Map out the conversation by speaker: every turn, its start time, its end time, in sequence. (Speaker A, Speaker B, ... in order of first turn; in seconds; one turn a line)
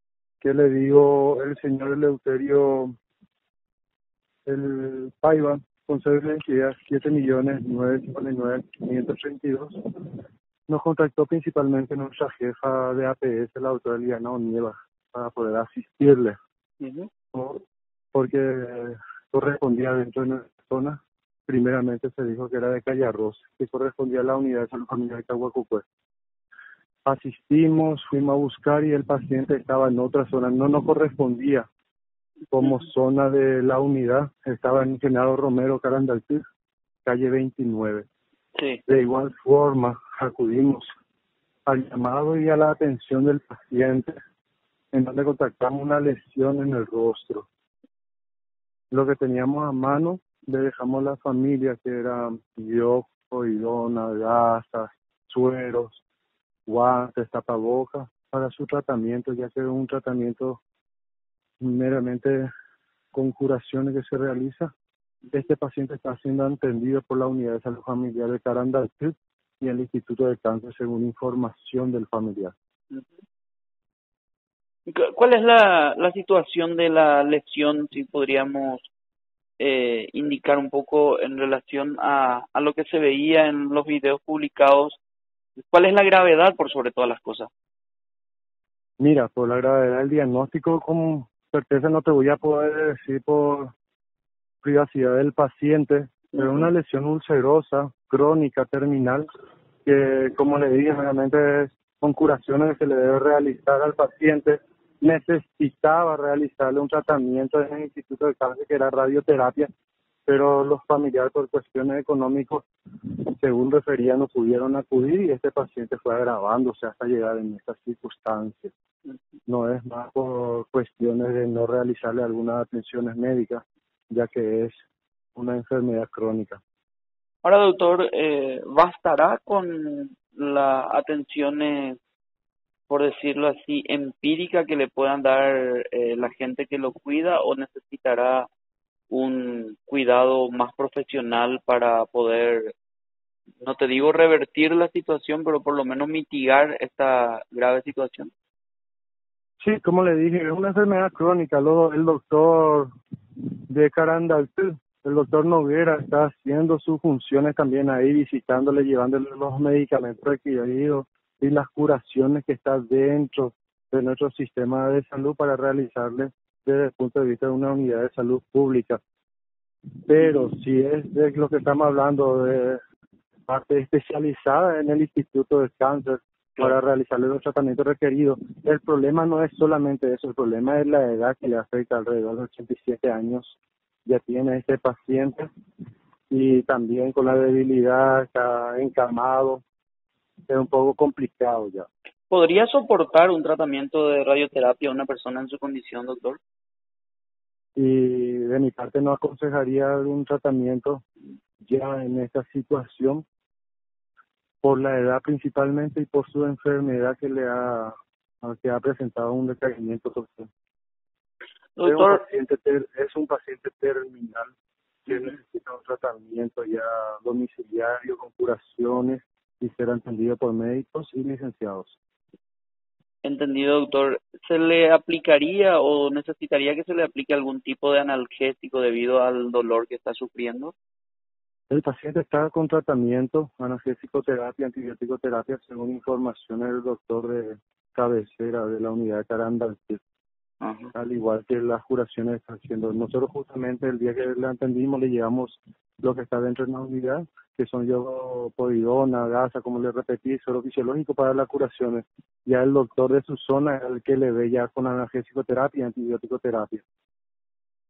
Speaker A: 0.4-2.9
Speaker A: 4.5-16.4
Speaker B: 16.8-17.1
Speaker A: 17.3-17.6
Speaker A: 18.1-25.9
Speaker A: 27.1-31.7
Speaker A: 32.5-36.4
Speaker B: 32.6-32.9
Speaker A: 37.0-38.0
Speaker B: 38.6-38.8
Speaker A: 38.9-40.9
Speaker A: 41.7-44.2
Speaker A: 44.9-47.5
Speaker A: 48.9-56.0
Speaker A: 56.7-60.6
Speaker A: 61.6-62.5
Speaker A: 63.1-64.7
Speaker A: 65.3-72.5
Speaker B: 74.9-78.9
Speaker B: 79.6-85.0
Speaker B: 85.6-87.5
Speaker A: 89.0-93.7
Speaker A: 94.6-99.3
Speaker B: 96.4-96.7
Speaker A: 99.8-109.7
Speaker A: 110.3-118.7
Speaker A: 119.5-124.8
Speaker A: 125.3-126.6
Speaker B: 127.4-132.0
Speaker B: 132.9-138.5
Speaker B: 139.1-142.7
Speaker B: 143.6-148.3
Speaker A: 149.6-152.9
Speaker A: 153.7-169.0
Speaker A: 170.1-172.8
Speaker B: 170.2-170.5
Speaker A: 173.5-185.5
Speaker A: 186.3-189.6
Speaker A: 190.5-191.9
Speaker B: 192.3-196.4
Speaker A: 197.8-201.0
Speaker A: 201.6-203.2
Speaker A: 204.6-210.5
Speaker B: 211.8-212.2
Speaker A: 211.8-214.5
Speaker A: 215.1-222.0
Speaker B: 215.1-215.4
Speaker B: 223.2-230.7
Speaker A: 231.7-240.0
Speaker B: 240.6-240.9
Speaker A: 240.9-256.8